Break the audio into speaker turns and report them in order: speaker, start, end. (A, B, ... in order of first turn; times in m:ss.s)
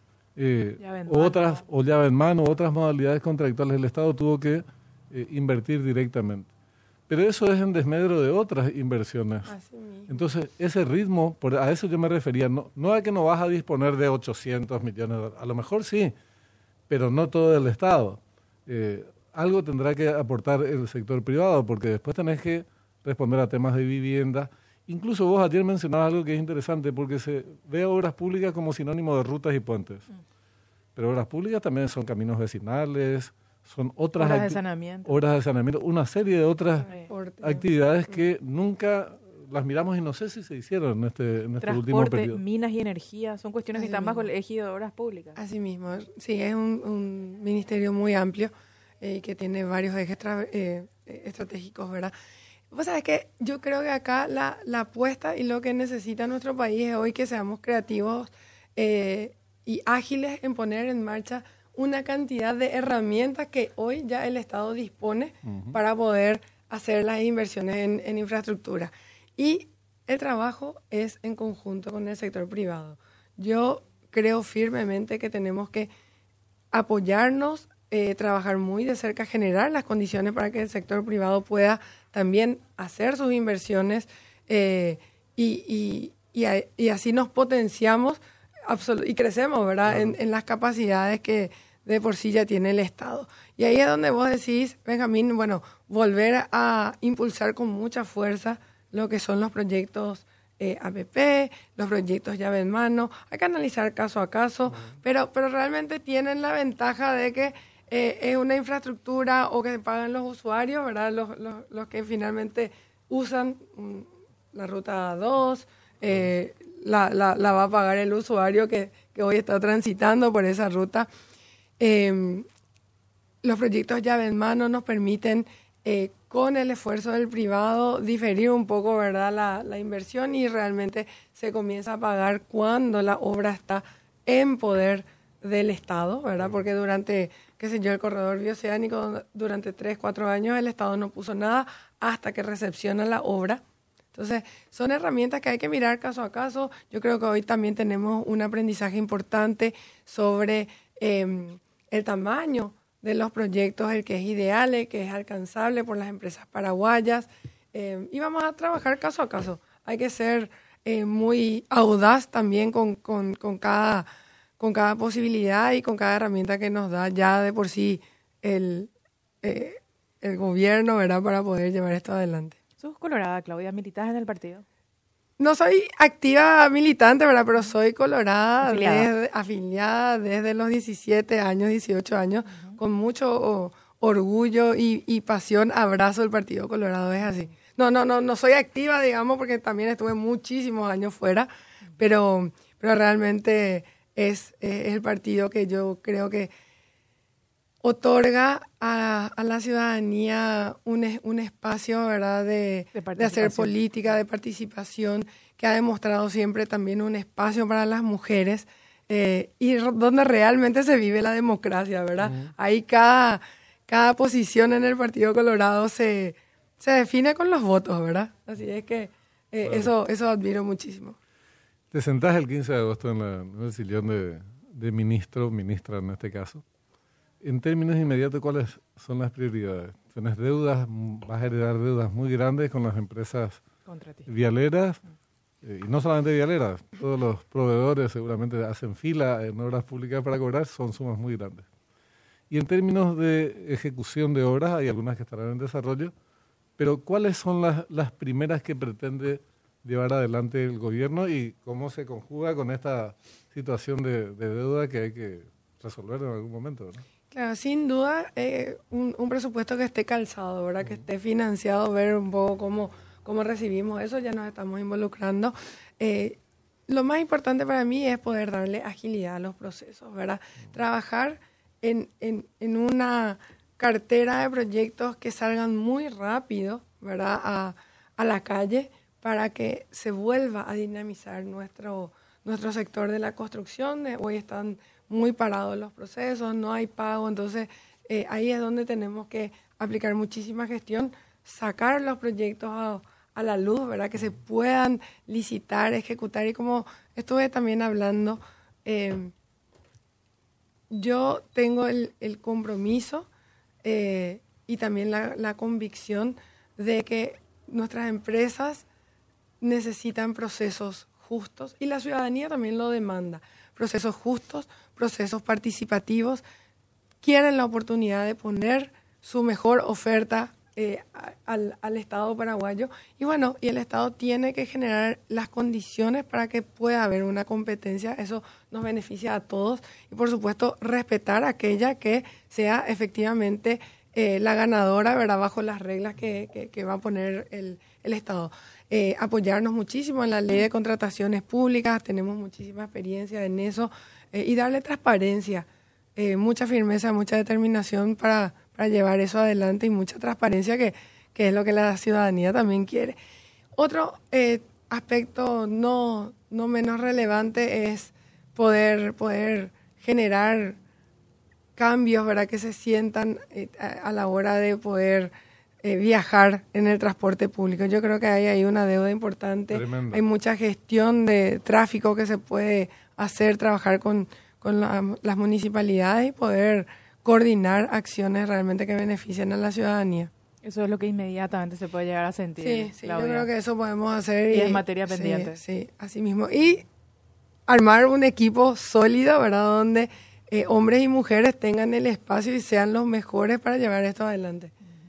0:00.4-0:06.5 A
0:00.8-0:01.6 B
0:07.1-0:09.5 A
0:09.5-0:10.1 C
0:10.1-0:16.2 A
0:16.9-0:30.1 A
0:31.0-0:36.9 A
0:34.2-0:35.2 B
0:36.9-0:37.6 C
0:37.4-0:42.4 A
0:41.6-0:45.4 B
0:43.8-0:44.3 C
0:45.4-0:52.1 C
0:52.7-1:15.9 C
1:05.4-1:05.8 A
1:16.7-2:01.1 C
1:29.9-1:30.2 A
2:01.8-2:02.5 C
2:03.4-2:23.6 C
2:24.1-2:44.1 C
2:44.6-2:48.9 C
2:49.4-2:52.6 C
2:52.8-2:54.6 B
2:55.4-3:16.5 C
2:58.6-2:59.1 B
3:17.8-3:41.2 C
3:23.0-3:23.7 B
3:32.2-3:32.5 A
3:39.6-3:39.9 A
3:41.9-3:46.6 A
3:47.4-3:53.6 A
3:53.9-3:54.3 B
3:54.3-3:55.0 A
3:55.6-4:01.7 A
4:02.5-4:06.1 A
4:06.8-4:17.0 A
4:17.3-4:26.4 C
4:26.9-4:59.3 C
5:00.9-5:03.3 C
5:03.8-5:08.9 C
5:09.6-5:16.4 C
5:17.2-5:53.2 C
5:53.8-6:00.8 C
6:01.8-6:05.3 C
6:05.8-6:20.3 C
6:09.7-6:10.2 A
6:20.6-6:23.5 B
6:22.6-6:26.9 C
6:24.5-6:25.6 B
6:27.7-6:34.7 C